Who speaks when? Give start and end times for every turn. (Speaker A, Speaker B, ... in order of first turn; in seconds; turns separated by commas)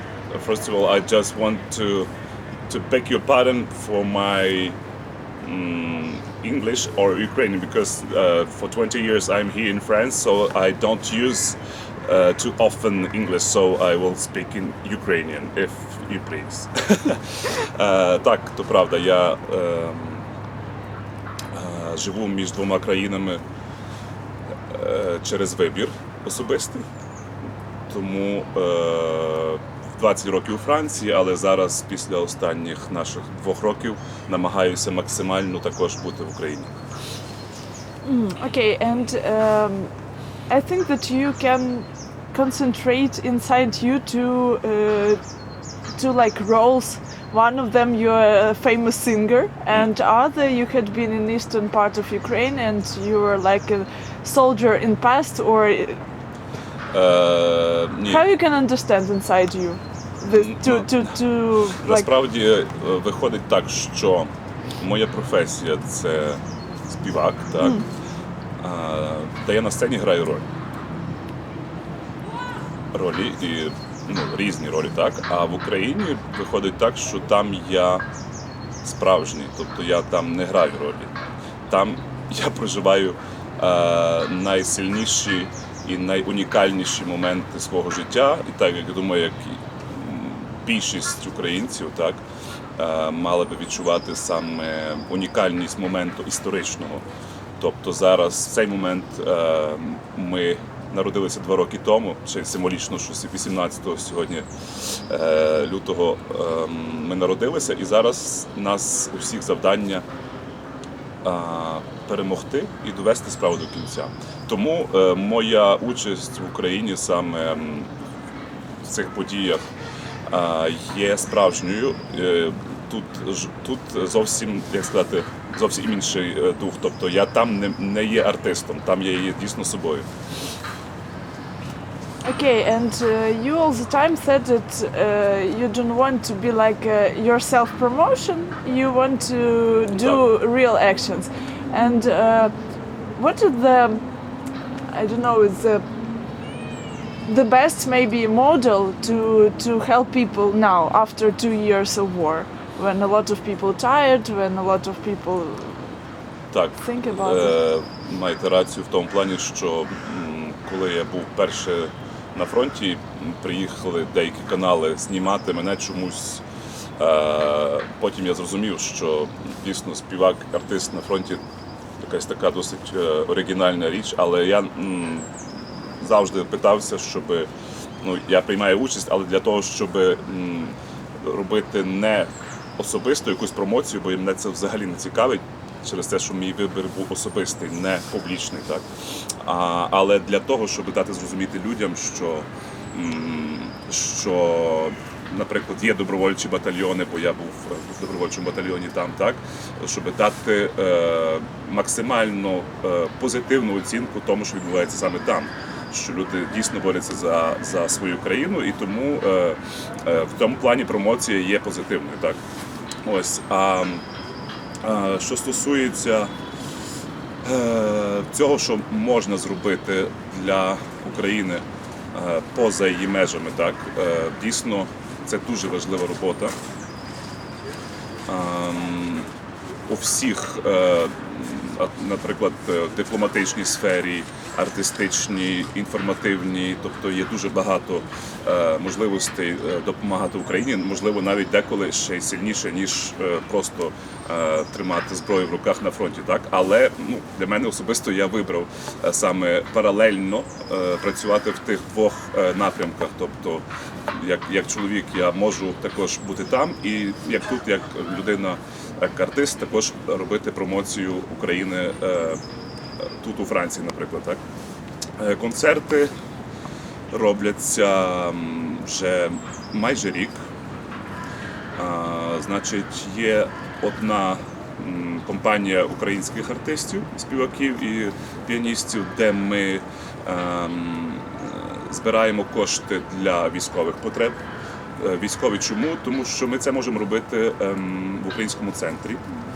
Speaker A: 0.3-2.1, Speaker A: 2.7-4.8, Speaker A: 5.4-20.3, Speaker A: 21.5-23.4, Speaker A: 24.7-26.8, Speaker A: 27.9-36.7, Speaker B: 38.0-39.9, Speaker B: 40.5-45.2, Speaker B: 46.0-56.0, Speaker A: 56.9-58.3, Speaker B: 58.1-62.1, Speaker A: 60.3-61.0, Speaker A: 61.8-67.8, Speaker B: 67.6-67.9, Speaker A: 68.6-70.5, Speaker A: 72.9-78.0, Speaker A: 78.8-81.1, Speaker A: 81.7-92.2, Speaker A: 92.8-97.0, Speaker A: 97.6-110.0, Speaker A: 111.2-117.9, Speaker A: 118.8-119.6, Speaker A: 120.3-130.1, Speaker B: 132.2-142.5, Speaker B: 143.2-144.0, Speaker B: 144.9-145.8, Speaker B: 147.3-156.0, Speaker A: 156.5-166.4, Speaker B: 156.8-157.6, Speaker A: 167.0-171.4, Speaker A: 172.0-175.3, Speaker A: 176.0-177.5, Speaker A: 178.0-188.9, Speaker A: 189.4-212.4, Speaker A: 213.1-214.0, Speaker A: 214.8-216.3, Speaker A: 217.4-226.6, Speaker A: 228.3-229.3, Speaker A: 229.9-262.4, Speaker A: 263.2-264.4, Speaker A: 265.2-266.1, Speaker A: 267.1-270.4, Speaker A: 271.8-284.4, Speaker A: 285.0-289.2